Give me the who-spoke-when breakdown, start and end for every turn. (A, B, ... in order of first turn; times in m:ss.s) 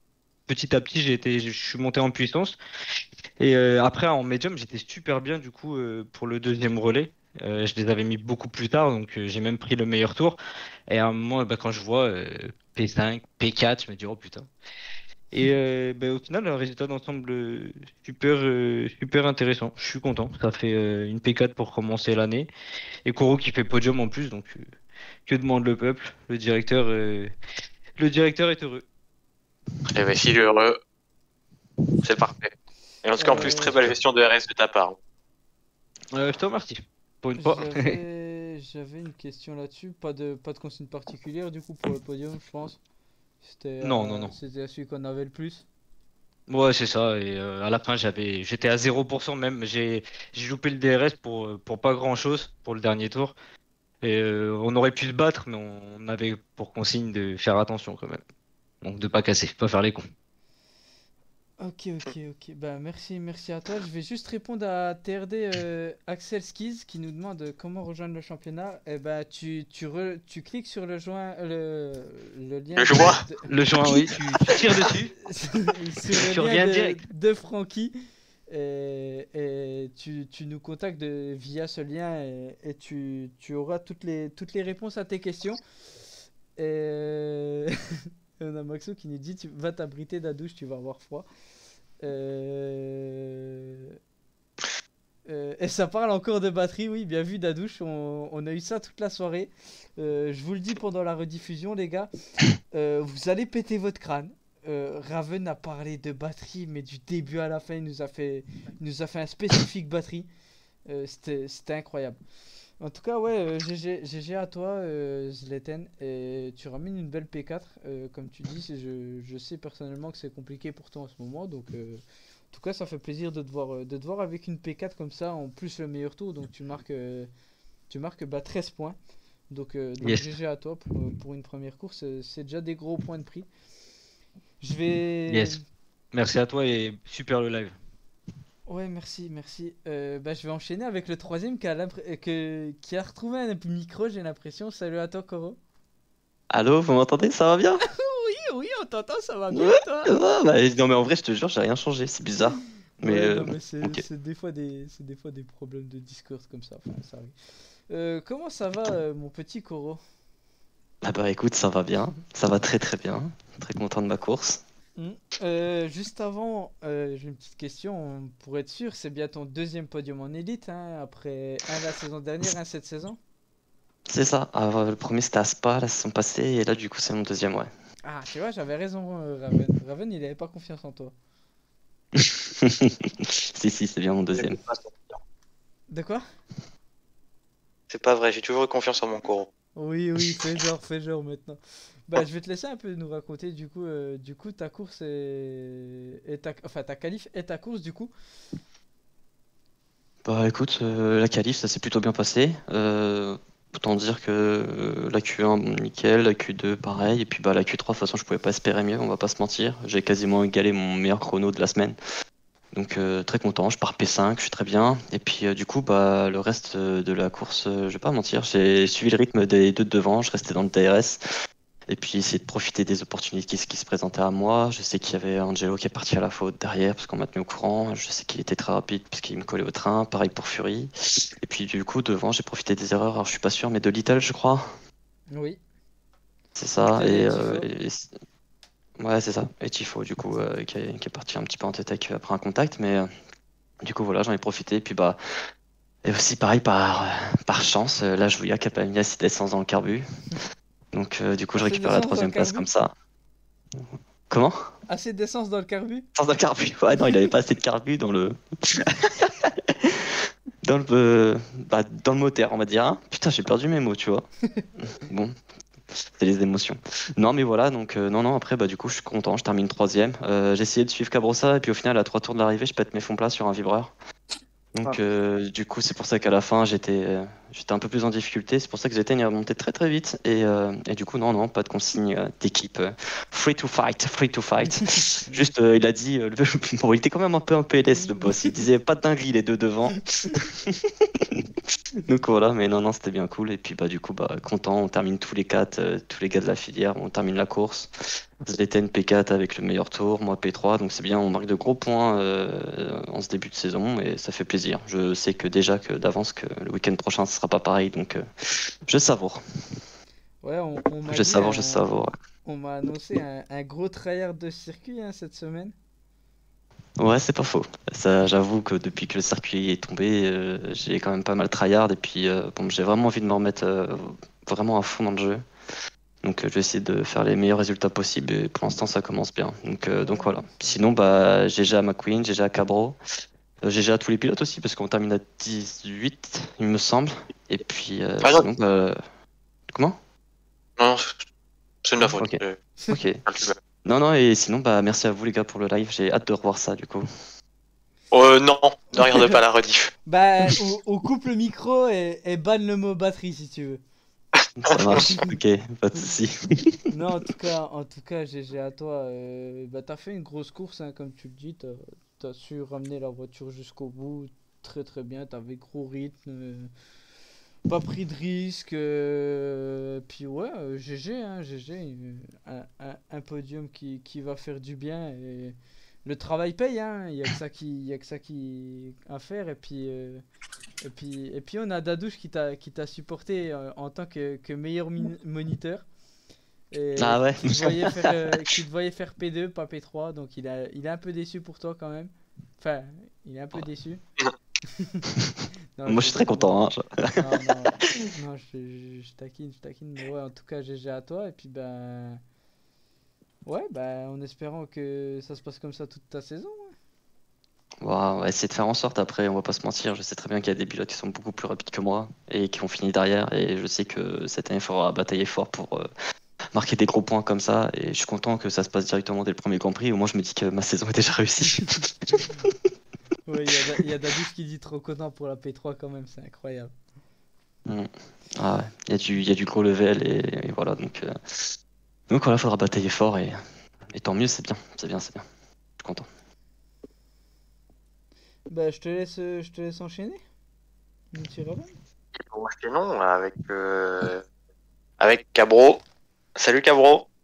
0:00.5-0:02.6 A
0:03.4-0:14.5 A
0:15.3-0:22.5 A
0:23.0-0:24.7 A
0:25.3-0:27.3 A
0:28.0-0:28.8 A
0:29.9-0:30.8 B
0:32.0-0:35.0 B
0:33.2-0:33.8 C
0:36.1-0:38.0 A
0:37.4-0:42.8 C
0:43.4-0:45.6 C
0:43.8-0:44.3 A
0:46.5-0:53.4 A
0:54.0-0:58.2 A
0:58.8-1:00.1 A
1:01.6-1:14.2 C
1:12.8-1:13.2 B
1:13.5-1:15.2 A
1:15.3-1:17.9 C
1:16.1-1:17.0 A
1:18.5-1:25.6 C
1:26.6-1:27.7 C
1:28.4-1:31.3 C
1:32.0-1:33.9 C
1:35.3-1:50.3 C
1:50.9-1:52.2 C
1:52.8-2:07.3 C
2:07.9-2:09.0 C
2:09.5-2:13.5 C
2:10.0-2:10.3 A
2:14.6-2:15.6 C
2:15.3-2:15.6 A
2:16.1-2:17.7 A
2:18.7-2:25.6 C
2:26.5-2:27.8 D
2:27.9-2:30.2 C
2:29.5-2:34.0 D
2:33.0-2:37.3 C
2:37.9-2:40.0 C
2:41.0-2:44.6 D
2:45.0-2:53.2 C
2:54.1-2:57.7 D
2:58.0-3:01.1 C
3:02.2-3:04.6 D
3:04.3-3:05.2 B
3:05.9-3:06.2 C
3:07.9-3:09.5 B
3:09.8-3:18.1 C
3:20.2-3:32.0 D
3:32.7-3:41.2 D
3:41.9-3:54.7 D
3:55.3-3:55.6 C
3:56.6-3:58.1 D
3:57.0-3:57.7 C
3:59.0-4:03.1 D
4:03.8-4:05.2 D
4:06.0-4:10.0 D
4:10.9-4:12.9 D
4:11.6-4:12.6 C
4:13.8-4:14.6 D
4:14.9-4:16.0 C
4:16.2-4:20.0 D
4:20.6-4:24.3 D
4:24.9-4:25.4 D
4:26.1-4:33.9 D
4:34.7-4:51.4 D
4:48.2-4:48.5 C
4:52.0-4:57.9 D
4:58.4-5:08.3 D
5:08.8-5:09.8 D
5:10.4-5:11.8 C
5:11.1-5:12.1 D
5:12.4-5:15.7 C
5:17.0-5:25.4 D
5:26.2-5:33.0 D
5:30.0-5:30.8 C
5:33.6-5:39.0 D
5:39.7-5:40.0 D
5:40.8-5:41.2 B
5:41.8-5:42.6 B
5:42.0-5:42.4 D
5:42.9-5:43.2 D
5:43.3-5:43.6 B
5:43.8-5:47.1 D
5:48.1-5:49.9 B
5:50.1-5:53.8 C
5:54.6-5:56.8 D
5:54.6-5:55.0 B
5:56.9-6:06.7 C
6:07.7-6:20.2 C
6:20.8-6:25.9 C
6:26.7-6:34.0 C
6:27.0-6:28.1 D
6:34.8-6:35.0 C
6:35.8-6:36.6 C
6:35.9-6:37.1 D
6:37.2-6:42.2 C
6:43.4-6:46.7 C
6:47.8-6:55.9 D
6:56.5-7:02.6 D
7:03.3-7:06.7 C
7:07.6-7:11.5 D
7:12.1-7:15.2 D
7:15.8-7:16.1 D
7:18.5-7:20.2 C
7:21.1-7:21.7 C
7:22.1-7:24.2 B
7:25.0-7:25.8 B
7:26.4-7:27.1 B